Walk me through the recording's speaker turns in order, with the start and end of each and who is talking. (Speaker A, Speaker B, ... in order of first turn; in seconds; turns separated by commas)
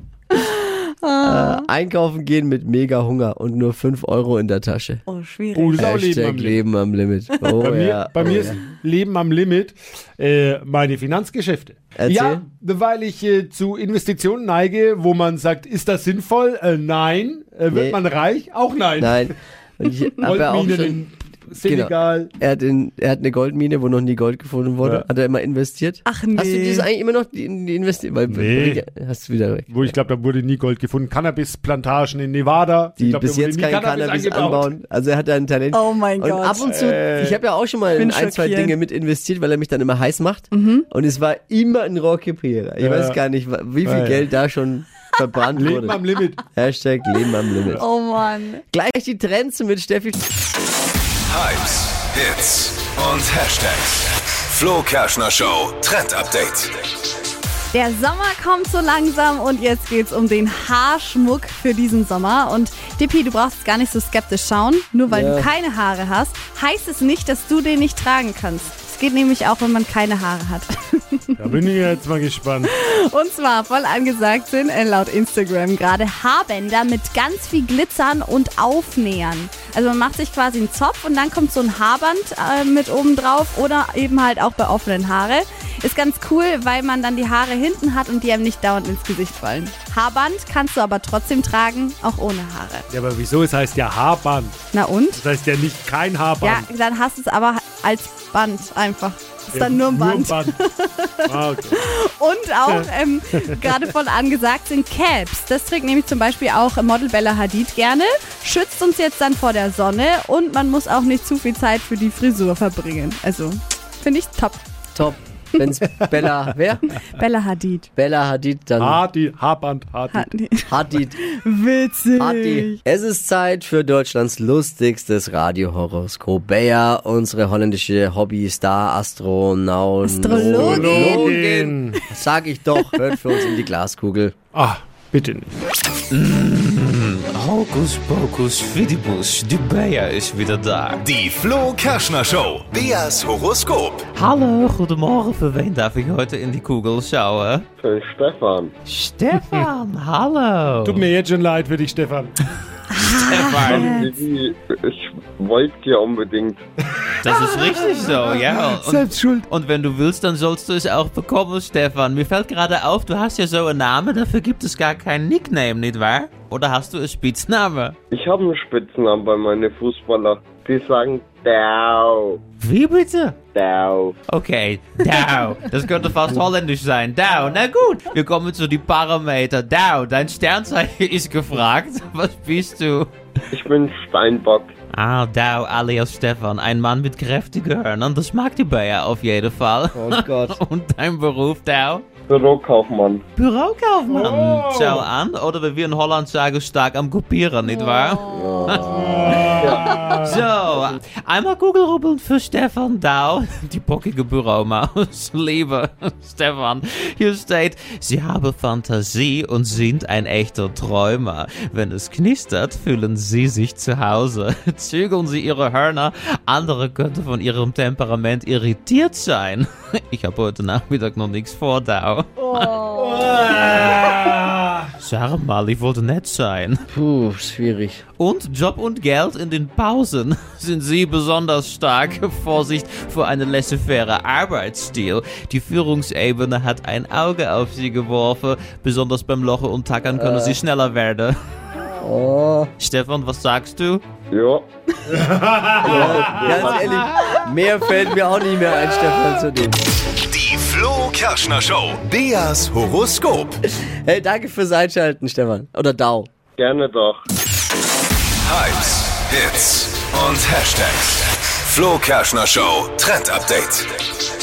Speaker A: 0.3-1.7, Speaker B: 1.2-5.0, Speaker A: 5.1-5.8, Speaker C: 5.5-6.6, Speaker B: 5.8-8.6, Speaker C: 7.6-19.2, Speaker B: 11.9-12.4, Speaker B: 17.7-18.0, Speaker B: 19.0-21.0, Speaker C: 20.2-22.3, Speaker B: 21.6-29.9, Speaker A: 26.0-26.9, Speaker C: 28.3-28.8, Speaker C: 29.7-34.7, Speaker B: 33.0-46.0, Speaker A: 35.7-36.8, Speaker C: 36.8-37.4, Speaker A: 37.9-38.8, Speaker A: 40.5-40.9, Speaker C: 42.8-43.2, Speaker C: 43.8-44.2, Speaker C: 45.5-46.4, Speaker B: 46.5-47.8, Speaker A: 47.8-48.6, Speaker B: 48.7-50.2, Speaker D: 51.3-56.8, Speaker A: 57.7-71.7, Speaker B: 65.1-65.5, Speaker C: 71.4-72.7, Speaker A: 72.7-92.8, Speaker C: 92.9-94.6, Speaker A: 94.7-95.2, Speaker C: 95.2-96.7, Speaker A: 96.4-114.6, Speaker C: 99.5-100.5, Speaker C: 101.2-101.8, Speaker B: 114.9-116.8, Speaker A: 117.1-117.9, Speaker B: 118.0-119.0, Speaker C: 118.8-120.3, Speaker A: 120.1-122.8, Speaker B: 120.7-121.1, Speaker B: 122.2-134.3, Speaker A: 130.0-131.3, Speaker C: 130.3-132.0, Speaker C: 134.5-135.6, Speaker E: 136.1-141.2, Speaker D: 141.1-144.1, Speaker E: 144.1-147.7, Speaker F: 147.8-148.7, Speaker E: 148.8-151.1, Speaker C: 150.8-152.3, Speaker A: 152.9-154.1, Speaker E: 153.0-154.0, Speaker F: 153.6-156.6, Speaker C: 153.7-154.1, Speaker E: 157.2-168.0, Speaker C: 158.1-159.4, Speaker F: 168.1-172.4, Speaker E: 172.6-173.4, Speaker F: 173.5-174.1, Speaker E: 174.3-183.1, Speaker F: 183.5-184.7, Speaker E: 184.9-192.1, Speaker B: 189.9-190.6, Speaker F: 192.3-193.2, Speaker E: 193.3-224.0, Speaker C: 194.1-195.1, Speaker F: 198.3-199.9, Speaker C: 198.8-200.4, Speaker C: 222.9-224.9, Speaker E: 225.0-226.8, Speaker B: 226.9-228.0, Speaker E: 228.2-241.3, Speaker B: 240.1-240.6, Speaker B: 242.0-242.7, Speaker E: 242.8-244.0, Speaker F: 244.3-244.6, Speaker C: 245.2-246.6, Speaker B: 245.8-249.8, Speaker E: 246.6-246.9, Speaker D: 250.2-253.6, Speaker B: 253.8-256.3, Speaker F: 256.6-257.2, Speaker D: 258.4-264.0